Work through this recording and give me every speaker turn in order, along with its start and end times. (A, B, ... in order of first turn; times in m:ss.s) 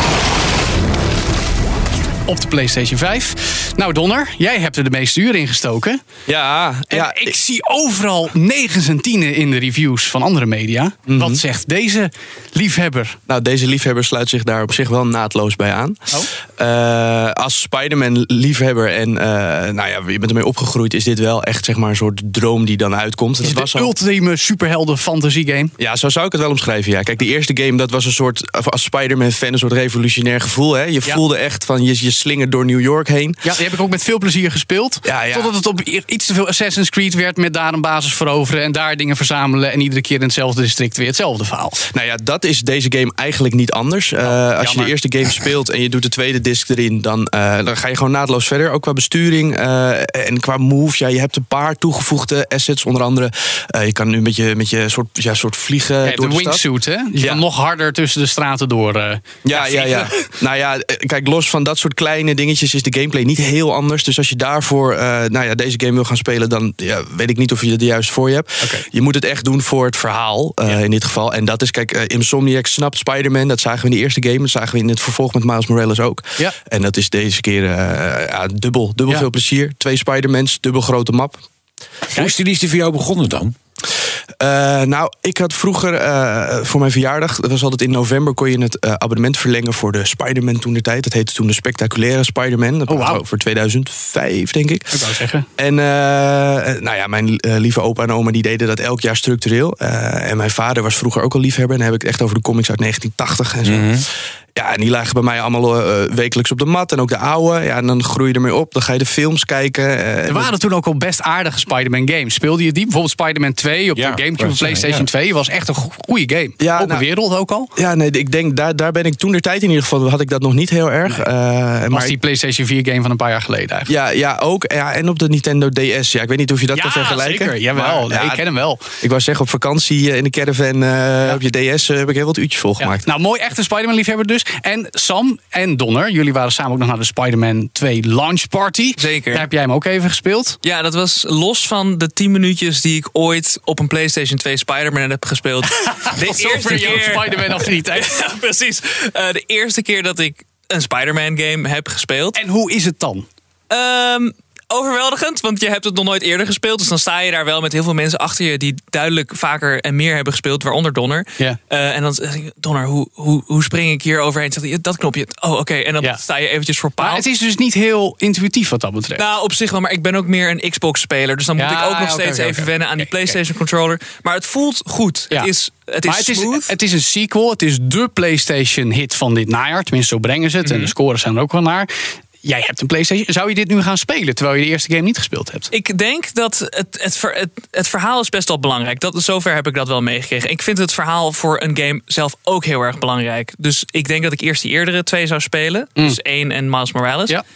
0:02.2-0:06.0 A
0:06.3-0:07.4 B
0:06.9-0:13.2 A
0:11.1-0:11.4 B
0:13.3-0:23.9 B
0:23.4-0:25.7 A
0:25.8-0:33.4 B
0:33.4-0:41.8 A
0:35.0-0:35.5 B
0:41.9-0:56.6 B
0:44.2-0:45.0 A
0:56.0-1:00.1 A
0:57.2-0:57.4 B
0:59.4-1:21.4 B
1:08.6-1:08.9 A
1:22.1-1:23.5 C
1:24.4-1:34.9 B
1:32.9-1:33.2 A
1:34.9-1:35.5 A
1:35.6-1:43.9 B
1:43.6-1:44.0 C
1:44.6-1:50.5 B
1:50.2-1:57.7 A
1:54.0-1:55.0 C
1:56.6-1:57.1 B
1:57.8-2:02.2 B
2:01.9-2:03.9 A
2:03.9-2:08.4 B
2:06.7-2:08.8 A
2:09.0-2:13.0 B
2:12.8-2:20.6 A
2:19.0-2:19.5 D
2:20.6-2:32.4 D
2:25.9-2:28.1 A
2:32.3-2:33.2 A
2:33.7-2:47.2 D
2:47.0-2:49.2 A
2:49.1-2:56.7 D
2:51.6-2:53.4 A
2:56.0-3:01.9 A
3:00.6-3:00.9 D
3:02.4-3:05.7 A
3:05.7-3:17.4 D